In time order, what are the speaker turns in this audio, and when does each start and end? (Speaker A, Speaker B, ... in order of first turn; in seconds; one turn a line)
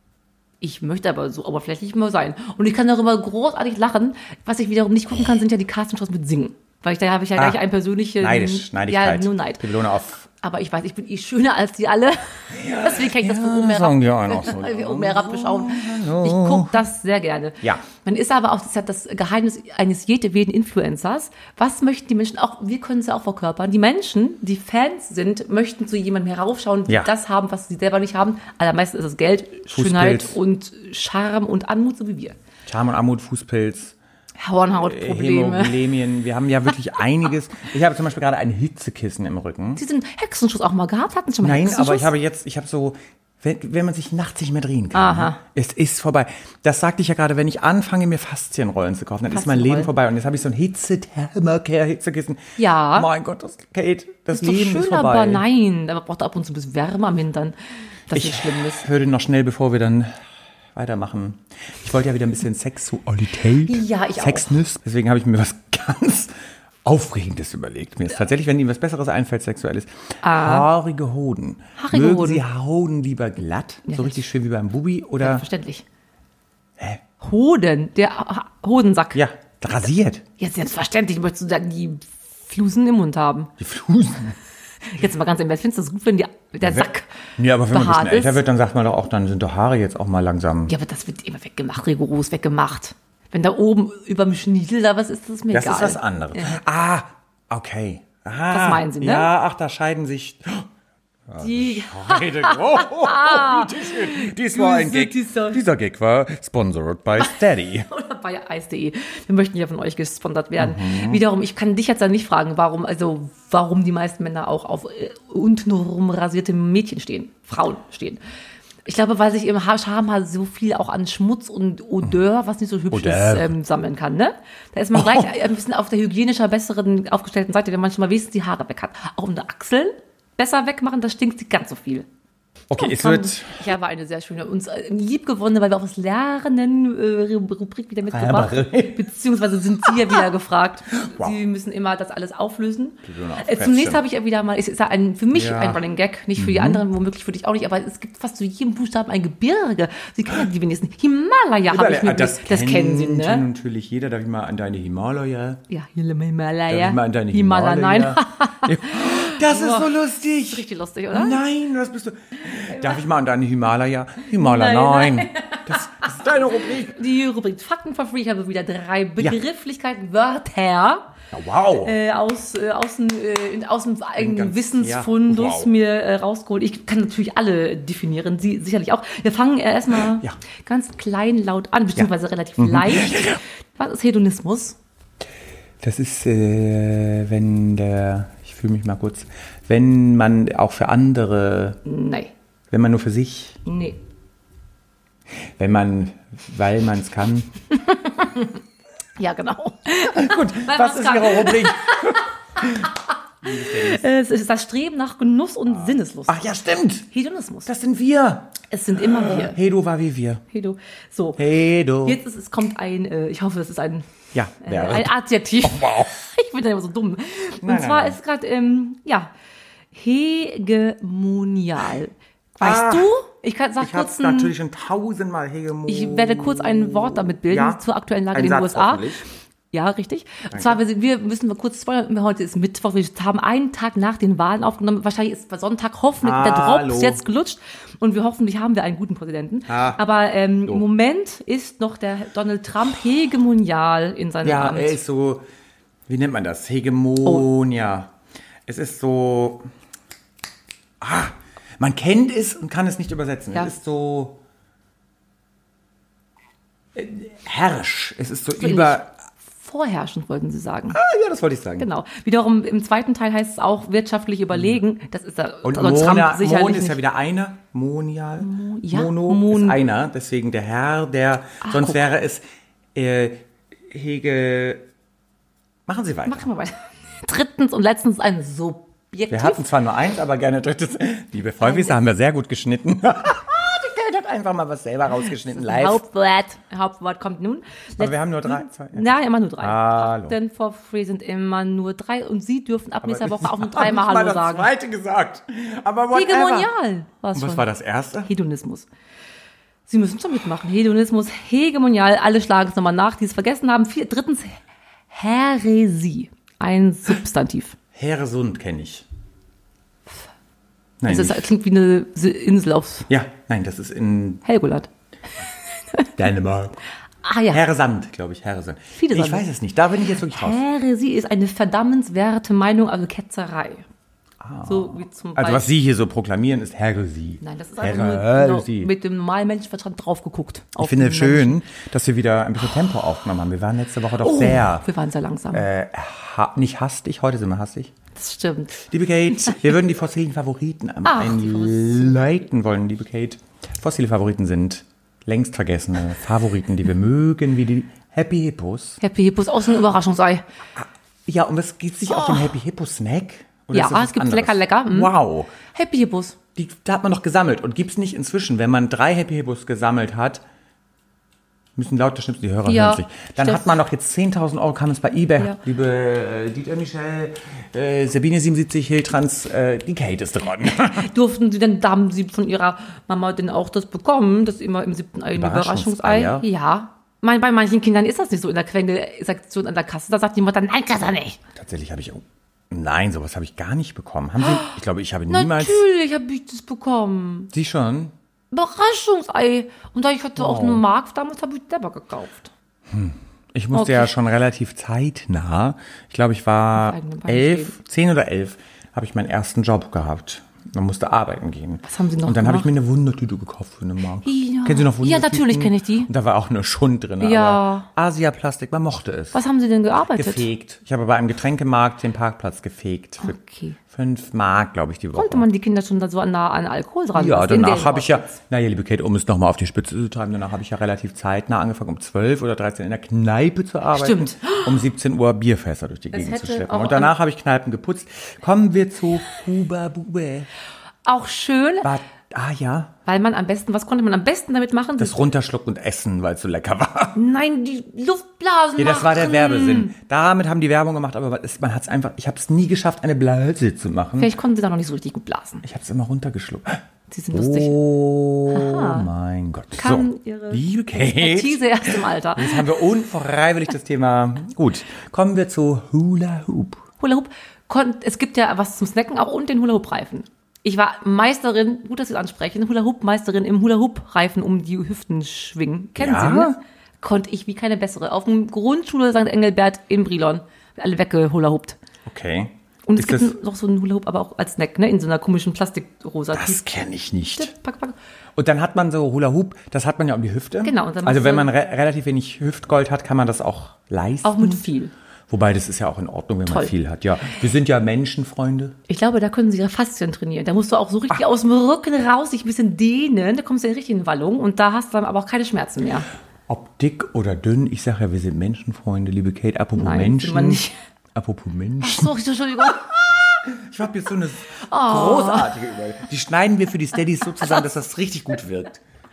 Speaker A: 0.6-9.6
Speaker B: 7.4-7.6
Speaker B: 8.2-10.3
Speaker A: 10.3-32.4
Speaker B: 12.5-16.8
Speaker B: 29.7-30.4
Speaker B: 32.7-34.0
Speaker A: 34.4-35.8
Speaker B: 34.8-39.8
Speaker A: 39.8-42.1
Speaker B: 41.4-52.4
Speaker A: 44.9-45.4
Speaker A: 49.3-49.9
Speaker A: 52.6-53.1
Speaker B: 52.9-55.4
Speaker A: 54.3-57.5
Speaker A: 58.1-58.9
Speaker B: 58.1-75.5
Speaker A: 63.6-64.5
Speaker A: 70.2-70.7
Speaker A: 71.8-72.4
Speaker A: 73.9-74.3
Speaker A: 75.2-75.8
Speaker A: 77.2-79.2
Speaker B: 79.1-80.2
Speaker A: 80.4-83.5
Speaker B: 83.6-84.4
Speaker A: 84.8-87.1
Speaker B: 86.6-90.7
Speaker A: 87.7-88.4
Speaker A: 90.7-96.6
Speaker B: 95.5-100.7
Speaker A: 98.5-99.3
Speaker B: 101.3-107.9
Speaker A: 101.4-105.6
Speaker A: 107.9-118.2
Speaker B: 110.6-111.2
Speaker A: 118.8-132.1
Speaker B: 122.9-123.5
Speaker B: 125.0-125.3
Speaker B: 132.7-133.7
Speaker A: 132.8-153.5
Speaker B: 138.1-139.0
Speaker B: 141.1-141.3
Speaker B: 143.0-144.0
Speaker B: 145.3-145.8
Speaker B: 146.4-146.8
Speaker B: 151.7-155.6
Speaker A: 155.7-159.9
Speaker B: 156.7-167.0
Speaker A: 160.5-161.4
Speaker A: 162.7-163.0
Speaker A: 164.4-171.1
Speaker B: 171.3-171.9
Speaker A: 171.8-184.8
Speaker B: 174.2-175.7
Speaker B: 182.0-183.4
Speaker B: 185.8-191.8
Speaker A: 191.9-192.3
Speaker B: 192.7-193.6
Speaker A: 193.7-194.0
Speaker B: 195.6-197.5
Speaker A: 197.8-198.6
Speaker A: 199.2-206.5
Speaker B: 200.1-204.1
Speaker B: 205.9-207.1
Speaker A: 207.1-207.7
Speaker B: 207.7-210.4
Speaker A: 208.7-209.6
Speaker A: 210.5-211.4
Speaker B: 211.4-212.2
Speaker A: 212.0-214.1
Speaker B: 214.3-216.1
Speaker A: 214.6-219.3
Speaker B: 217.6-218.2
Speaker A: 219.9-224.5
Speaker B: 222.6-223.1
Speaker B: 223.8-227.8
Speaker A: 225.9-245.0
Speaker B: 228.3-229.2
Speaker B: 230.5-230.8
Speaker B: 236.2-237.2
Speaker B: 239.7-240.0
Speaker B: 244.4-245.4
Speaker B: 246.1-248.1
Speaker B: 248.7-249.7
Speaker B: 251.0-254.4
Speaker B: 256.9-259.1
Speaker A: 258.6-259.0
Speaker A: 259.6-261.0
Speaker B: 260.9-261.9
Speaker A: 261.8-267.0
Speaker B: 265.6-272.4
Speaker A: 268.4-269.9
Speaker A: 271.6-272.0
Speaker B: 272.9-274.8
Speaker B: 275.9-276.5
Speaker A: 276.3-279.7
Speaker B: 279.3-286.0
Speaker A: 281.6-282.0
Speaker A: 285.6-294.7
Speaker B: 288.0-290.4
Speaker B: 293.0-296.7
Speaker A: 296.1-297.7
Speaker B: 297.4-298.3
Speaker A: 298.2-298.9
Speaker A: 299.9-307.8
Speaker B: 307.9-309.1
Speaker B: 311.0-311.5
Speaker A: 311.1-313.1
Speaker B: 313.1-314.4
Speaker A: 314.4-314.9
Speaker B: 316.2-316.8
Speaker A: 317.2-317.6
Speaker B: 317.5-320.6
Speaker A: 319.0-319.5
Speaker A: 320.2-323.9
Speaker B: 324.4-328.9
Speaker A: 324.7-325.7
Speaker A: 327.4-331.6
Speaker B: 330.8-334.9
Speaker A: 334.2-335.7
Speaker B: 335.5-337.9
Speaker A: 338.1-338.8
Speaker B: 338.8-349.0
Speaker A: 341.1-342.4
Speaker A: 349.0-350.4
Speaker B: 350.8-355.5
Speaker A: 352.1-352.5
Speaker A: 353.7-355.1
Speaker A: 355.7-356.4
Speaker B: 356.6-360.4
Speaker B: 361.8-371.1
Speaker A: 362.7-363.8
Speaker A: 370.9-381.4
Speaker B: 375.3-376.5
Speaker B: 381.6-385.8
Speaker A: 384.4-384.8
Speaker A: 385.3-387.5
Speaker B: 387.5-388.1
Speaker A: 388.5-392.5
Speaker B: 390.4-390.8
Speaker B: 392.9-409.4
Speaker A: 393.7-394.1
Speaker A: 396.8-397.8
Speaker A: 401.9-402.7
Speaker A: 404.2-406.1
Speaker A: 407.2-407.9
Speaker A: 409.3-410.5
Speaker B: 410.1-413.4
Speaker A: 413.2-413.8
Speaker B: 413.9-415.5
Speaker A: 415.2-418.4
Speaker B: 417.1-430.5
Speaker A: 423.9-424.8
Speaker A: 426.1-427.1
Speaker A: 431.1-431.9
Speaker B: 431.8-432.9
Speaker A: 433.1-435.3
Speaker B: 435.0-437.2
Speaker A: 437.1-439.9
Speaker B: 438.8-444.3
Speaker A: 444.2-445.6
Speaker B: 445.6-446.8
Speaker A: 447.1-447.8
Speaker B: 447.3-456.8
Speaker A: 448.5-449.1
Speaker A: 449.8-452.7
Speaker A: 457.0-471.8
Speaker B: 466.0-466.6
Speaker B: 472.1-473.3
Speaker A: 472.9-476.7
Speaker B: 476.3-477.5
Speaker A: 477.4-478.0
Speaker B: 478.4-484.6
Speaker A: 480.6-481.5
Speaker A: 484.2-484.9
Speaker B: 485.3-488.8
Speaker A: 488.9-496.1
Speaker B: 496.5-500.6
Speaker A: 499.8-500.8
Speaker B: 501.1-508.8
Speaker A: 501.8-502.8
Speaker A: 504.6-505.6